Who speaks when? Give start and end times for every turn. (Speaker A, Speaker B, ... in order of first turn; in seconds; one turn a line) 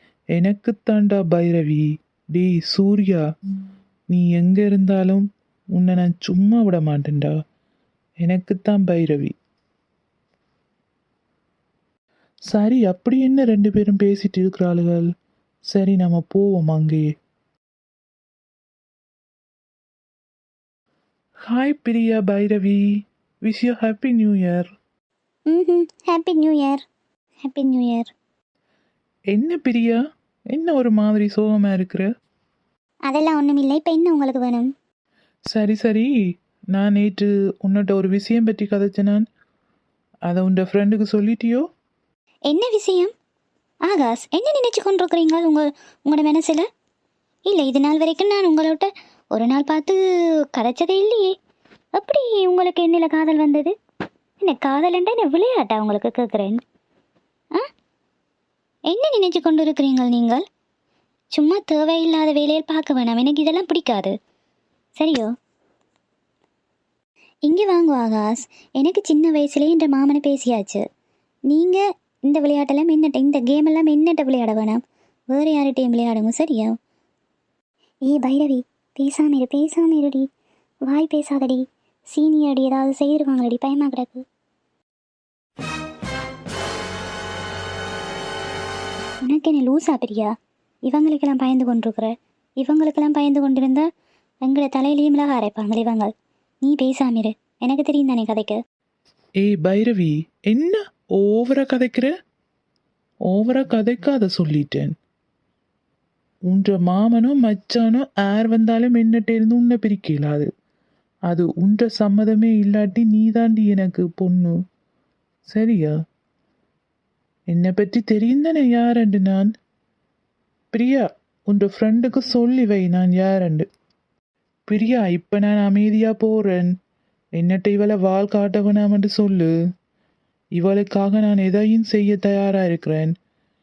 Speaker A: 0.3-3.2
Speaker A: 4.1-5.2
Speaker A: 5.7-7.3
Speaker A: 8.2-9.3
Speaker A: 12.5-15.1
Speaker A: 15.7-17.0
Speaker A: 21.5-22.8
Speaker A: 23.4-24.7
Speaker B: 25.5-26.8
Speaker B: 27.4-28.1
Speaker A: 29.3-29.9
Speaker A: 30.5-32.1
Speaker B: 33.1-34.7
Speaker A: 35.5-36.1
Speaker A: 36.7-39.2
Speaker A: 40.3-41.6
Speaker B: 42.5-43.1
Speaker B: 43.8-46.6
Speaker B: 47.5-50.0
Speaker B: 50.5-51.3
Speaker B: 51.9-53.7
Speaker B: 54.4-56.6
Speaker B: 58.9-60.4
Speaker B: 61.3-64.1
Speaker B: 65.0-65.3
Speaker B: 67.5-70.8
Speaker B: 71.5-74.8
Speaker B: 75.3-76.7
Speaker B: 78.1-80.2
Speaker B: 80.9-81.6
Speaker B: 82.1-84.2
Speaker B: 89.2-90.3
Speaker B: 90.9-93.9
Speaker B: 94.4-96.1
Speaker B: 96.6-98.6
Speaker A: 99.4-102.1
Speaker A: 103.3-104.9
Speaker A: 106.5-110.5
Speaker A: 111.3-114.5
Speaker A: 115.5-115.9
Speaker A: 117.5-119.5
Speaker A: 120.7-123.6
Speaker A: 124.7-126.7
Speaker A: 127.4-129.5
Speaker A: 130.6-133.1